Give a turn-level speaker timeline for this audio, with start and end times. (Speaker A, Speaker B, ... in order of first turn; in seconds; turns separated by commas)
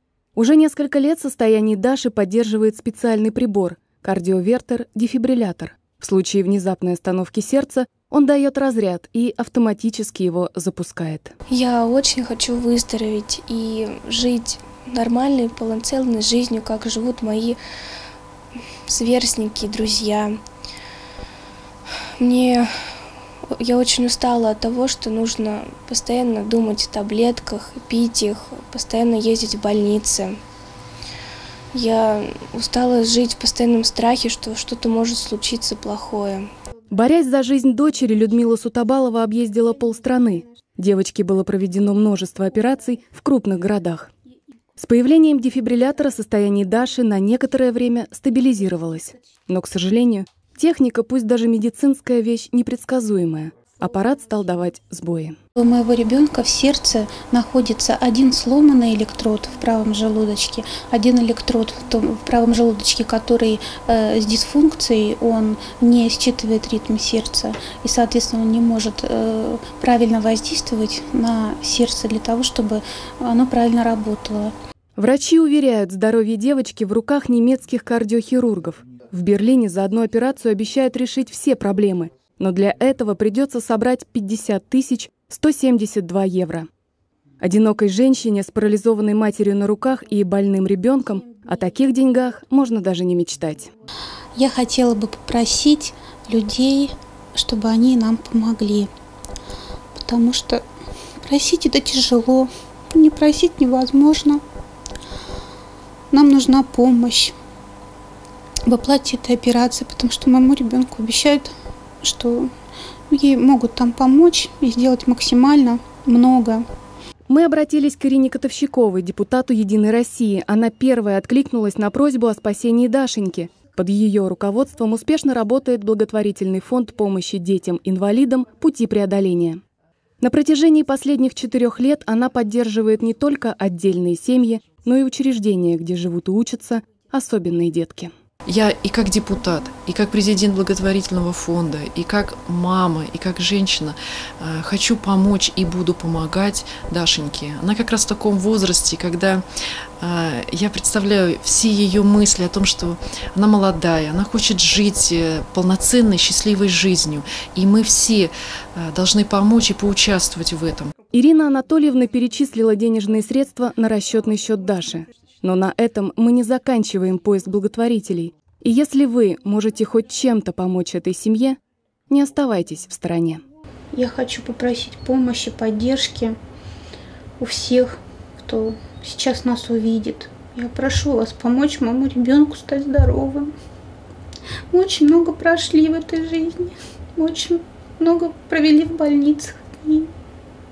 Speaker A: 0.3-11.3, Speaker B: 11.5-17.6, Speaker B: 18.9-20.4, Speaker B: 22.2-22.9, Speaker B: 23.5-30.4, Speaker B: 31.7-36.5, Speaker A: 36.9-44.1, Speaker A: 44.8-55.4, Speaker C: 55.6-74.5, Speaker A: 75.0-86.7, Speaker A: 87.4-93.7, Speaker C: 94.3-98.9, Speaker C: 100.0-100.6, Speaker C: 101.2-104.4, Speaker C: 106.1-107.3, Speaker C: 108.7-112.5, Speaker C: 113.1-116.6, Speaker A: 117.3-129.6, Speaker A: 130.2-138.1, Speaker D: 138.4-149.4, Speaker D: 150.0-160.9, Speaker A: 161.1-171.6, Speaker A: 172.1-173.4, Speaker C: 173.9-176.3, Speaker C: 177.4-183.5, Speaker C: 184.7-190.1